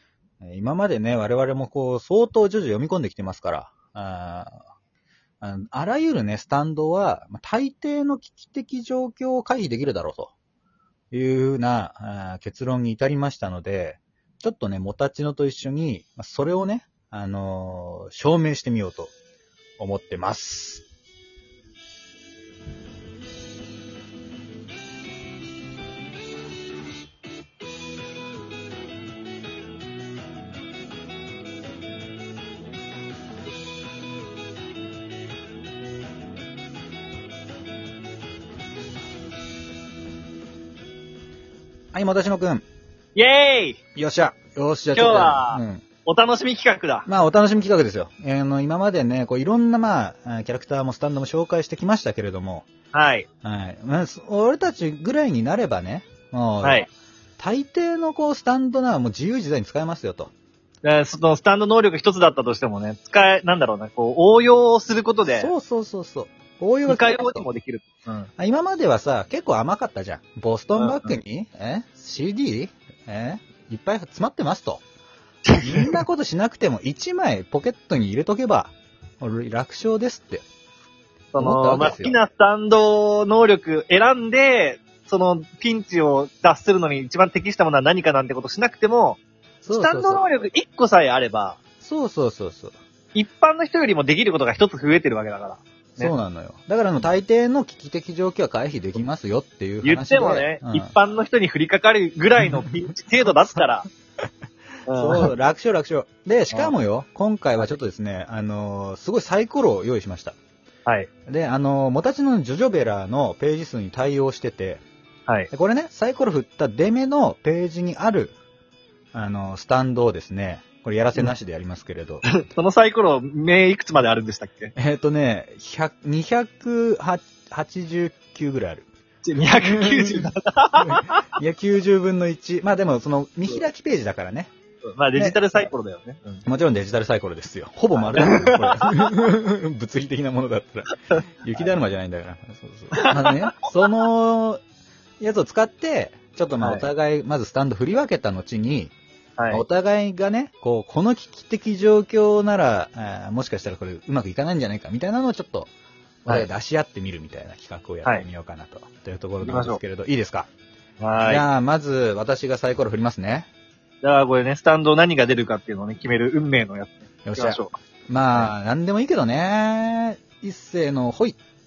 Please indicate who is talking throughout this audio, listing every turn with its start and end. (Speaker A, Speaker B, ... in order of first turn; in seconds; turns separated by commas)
Speaker A: 0.4-4.6, Speaker A: 5.4-10.3, Speaker A: 11.1-19.1, Speaker A: 19.8-20.8, Speaker A: 41.9-42.6, Speaker B: 43.1-43.8, Speaker A: 43.9-45.9, Speaker B: 44.9-47.1, Speaker A: 47.0-52.7, Speaker B: 52.9-53.3, Speaker A: 53.4-60.3, Speaker B: 56.6-56.9, Speaker B: 60.8-65.5, Speaker A: 65.3-67.5, Speaker B: 66.8-68.3, Speaker A: 68.4-74.8, Speaker B: 70.8-71.2, Speaker B: 75.5-75.9, Speaker A: 75.6-80.5, Speaker B: 81.3-91.7, Speaker A: 81.3-82.2, Speaker A: 89.6-90.3, Speaker A: 91.8-92.8, Speaker B: 93.1-96.1, Speaker A: 96.0-101.0, Speaker B: 99.8-103.9, Speaker A: 102.4-103.8, Speaker B: 104.9-105.3, Speaker A: 104.9-110.4, Speaker B: 110.8-111.1, Speaker A: 111.2-114.8, Speaker A: 115.5-118.3, Speaker A: 119.1-122.4, Speaker B: 122.2-124.7, Speaker A: 124.8-128.9, Speaker B: 129.2-131.2, Speaker A: 129.6-134.5, Speaker B: 134.8-136.4, Speaker A: 135.1-135.4, Speaker A: 136.4-144.6, Speaker B: 138.0-138.9, Speaker B: 142.9-143.8, Speaker A: 145.2-148.9, Speaker B: 146.6-146.9, Speaker B: 149.4-149.6, Speaker A: 149.5-155.7, Speaker A: 156.2-160.5, Speaker B: 159.4-159.8, Speaker B: 161.0-161.4, Speaker A: 161.2-163.5, Speaker B: 164.0-167.8, Speaker A: 167.2-171.4